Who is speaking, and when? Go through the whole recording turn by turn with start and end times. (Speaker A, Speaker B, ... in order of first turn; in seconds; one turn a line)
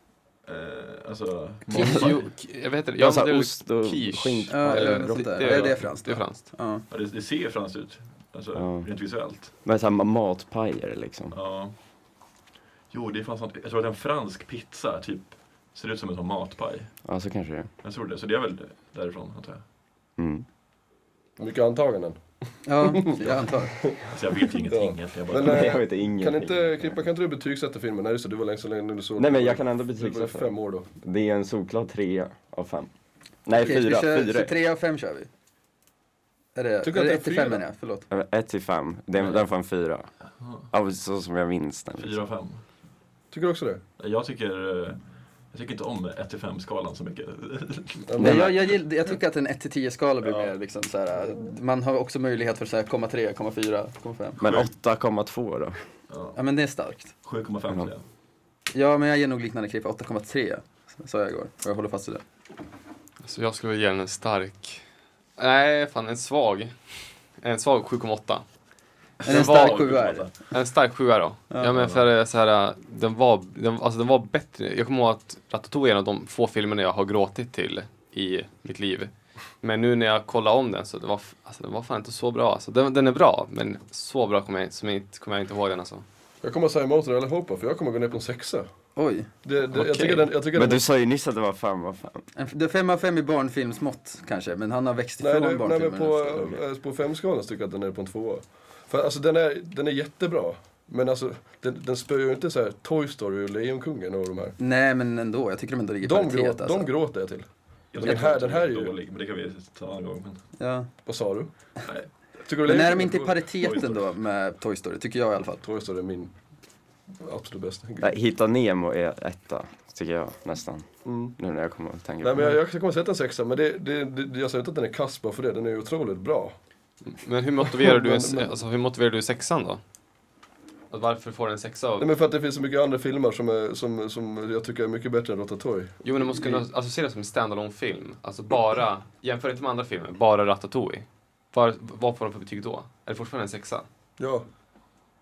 Speaker A: 0.4-2.3
Speaker B: 1.7-6.5
Speaker C: 3.0-5.8
Speaker D: 4.5-6.8
Speaker A: 6.9-9.5
Speaker C: 8.5-8.9
Speaker C: 9.6-11.3
Speaker A: 11.3-11.7
Speaker A: 12.9-17.0
Speaker C: 17.0-17.7
Speaker A: 17.8-19.6
Speaker C: 20.2-20.5
Speaker E: 21.4-24.1
Speaker D: 22.6-23.8
Speaker A: 24.0-25.8
Speaker E: 24.7-30.9
Speaker C: 25.4-27.0
Speaker C: 29.1-32.9
Speaker C: 33.4-34.5
Speaker D: 33.5-35.3
Speaker D: 36.5-38.1
Speaker E: 36.8-37.6
Speaker C: 38.1-40.1
Speaker A: 40.4-40.7
Speaker C: 40.7-42.2
Speaker A: 42.0-42.6
Speaker E: 43.3-43.8
Speaker A: 44.0-45.0
Speaker A: 45.5-48.4
Speaker E: 48.1-48.5
Speaker C: 48.2-48.5
Speaker D: 48.2-54.4
Speaker A: 50.2-50.5
Speaker C: 54.4-55.8
Speaker A: 54.4-54.7
Speaker A: 56.1-56.4
Speaker D: 56.3-57.1
Speaker A: 57.2-58.0
Speaker D: 58.7-62.2
Speaker B: 63.2-64.8
Speaker B: 65.4-68.4
Speaker A: 69.2-70.3
Speaker B: 69.2-79.1
Speaker D: 69.2-70.3
Speaker D: 71.5-71.8
Speaker A: 71.7-72.0
Speaker B: 79.6-86.0
Speaker E: 86.4-88.7
Speaker D: 89.0-89.3
Speaker E: 89.4-90.8
Speaker C: 89.8-92.2
Speaker D: 92.3-96.5
Speaker E: 95.2-104.5
Speaker D: 104.6-106.9
Speaker E: 106.0-108.9
Speaker A: 107.9-110.4
Speaker D: 110.6-110.9
Speaker E: 111.0-111.5
Speaker E: 112.4-113.5
Speaker D: 112.6-115.6
Speaker A: 113.6-114.0
Speaker E: 115.6-116.3
Speaker E: 117.2-118.1
Speaker C: 118.0-122.5
Speaker E: 121.0-121.3
Speaker E: 122.2-126.5
Speaker B: 127.0-129.8
Speaker E: 127.6-128.5
Speaker B: 130.9-132.1
Speaker E: 132.0-136.6
Speaker B: 136.0-143.8
Speaker E: 144.2-144.4